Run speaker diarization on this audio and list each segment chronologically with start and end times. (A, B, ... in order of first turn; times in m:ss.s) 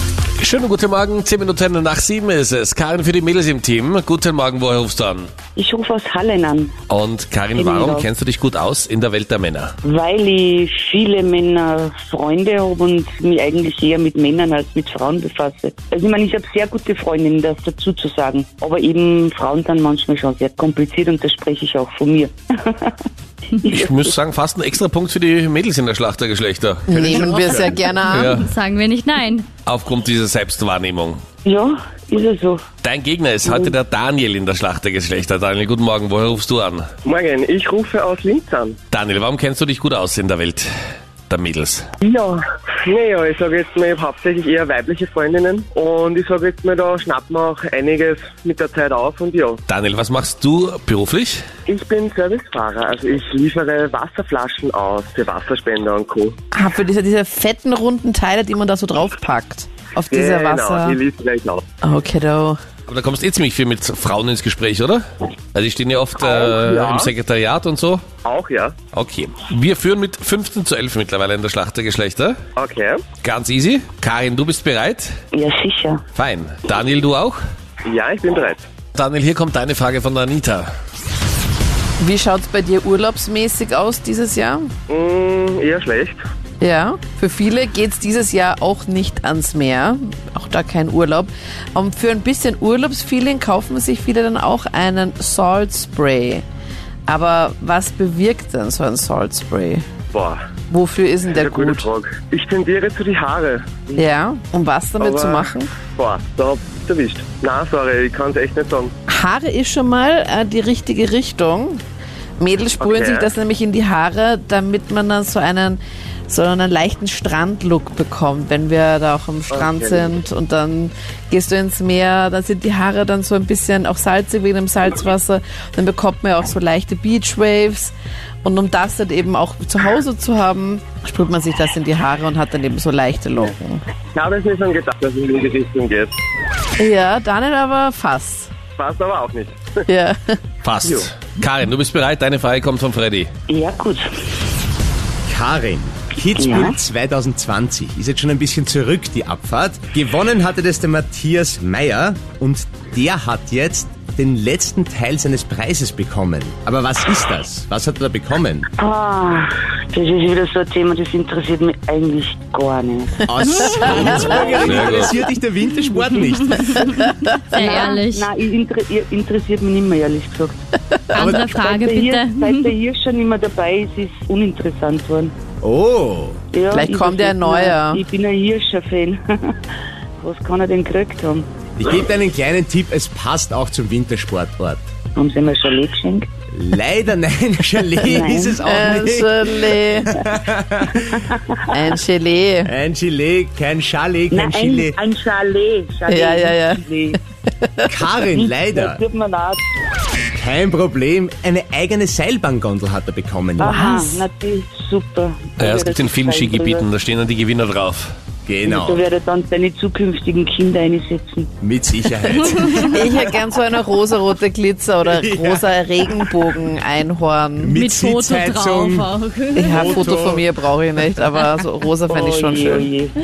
0:00.4-0:05.3 A
0:05.6-0:06.8 B
0:06.9-0:09.7 A
0:07.6-0:08.1 B
0:09.8-0:23.0 B
0:23.6-0:24.1 B
0:23.7-0:28.5 A
0:26.9-0:28.3 C
0:27.2-0:29.5 D
0:29.6-0:31.2 A
0:31.4-0:32.6 B
0:32.8-0:36.9 A
0:33.5-0:33.7 B
0:37.0-0:38.8 E
0:38.9-0:40.7 A
0:41.3-0:41.9 A
0:42.0-0:49.6 E
0:49.7-0:51.4 A
0:51.7-0:56.4 E
0:56.5-1:01.0 C
1:00.1-1:01.6 E
1:01.8-1:02.6 C
1:02.9-1:05.0 A
1:05.5-1:08.0 A
1:06.7-1:07.0 E
1:08.2-1:08.8 E
1:08.9-1:12.4 A
1:12.6-1:13.0 E
1:13.2-1:15.1 A
1:15.3-1:16.0 B
1:16.2-1:17.4 A
1:17.9-1:18.6 E
1:19.0-1:20.7 A
1:22.0-1:24.7 C
1:24.9-1:26.2 E
1:26.6-1:36.4 C
1:37.1-1:39.8 C
1:40.1-1:40.4 E
1:40.7-1:41.9 C
1:41.4-1:43.9 E
1:44.0-1:45.8 C
1:45.0-1:48.9 E
1:49.1-1:51.8 C
1:52.4-2:13.8 C
1:52.9-1:53.3 E
1:59.5-2:00.0 E
2:14.2-2:16.1 E
2:16.8-2:18.5 C
2:18.8-2:19.6 E
2:19.9-2:20.4 C
2:20.6-2:23.3 A
2:23.5-2:24.1 B
2:25.3-2:38.7 F
2:26.4-2:26.8 B
2:38.8-2:43.2 B
2:43.3-2:46.9 F
2:43.8-2:45.2 A
2:46.6-2:50.6 B
2:46.6-2:48.3 D
2:51.1-2:52.7 D
2:51.2-2:51.5 F
2:51.4-2:55.3 B
2:55.6-2:56.4 F
2:56.5-2:59.5 B
2:56.7-2:58.0 C
3:00.2-3:01.5 B
3:01.8-3:04.9 F
3:05.2-3:06.3 B
3:06.5-3:11.3 F
3:08.0-3:08.7 B
3:08.6-3:10.1 C
3:11.0-3:11.4 B
3:11.7-3:12.7 C
3:12.6-3:15.0 F
3:14.3-3:17.2 B
3:16.1-3:16.8 C
3:17.9-3:19.0 F
3:18.4-3:19.6 B
3:20.3-3:23.8 F
3:23.6-3:26.9 B
3:23.7-3:24.2 C
3:25.6-3:28.1 A
3:28.5-3:29.0 F
3:28.7-3:31.5 B
3:31.6-3:33.4 F
3:32.7-3:33.0 D
3:33.0-3:37.7 C
3:35.0-3:36.6 F
3:37.6-3:39.1 F
3:37.6-3:40.3 D
3:39.6-3:42.9 C
3:39.6-3:40.5 F
3:41.3-3:41.6 D
3:42.1-3:43.1 B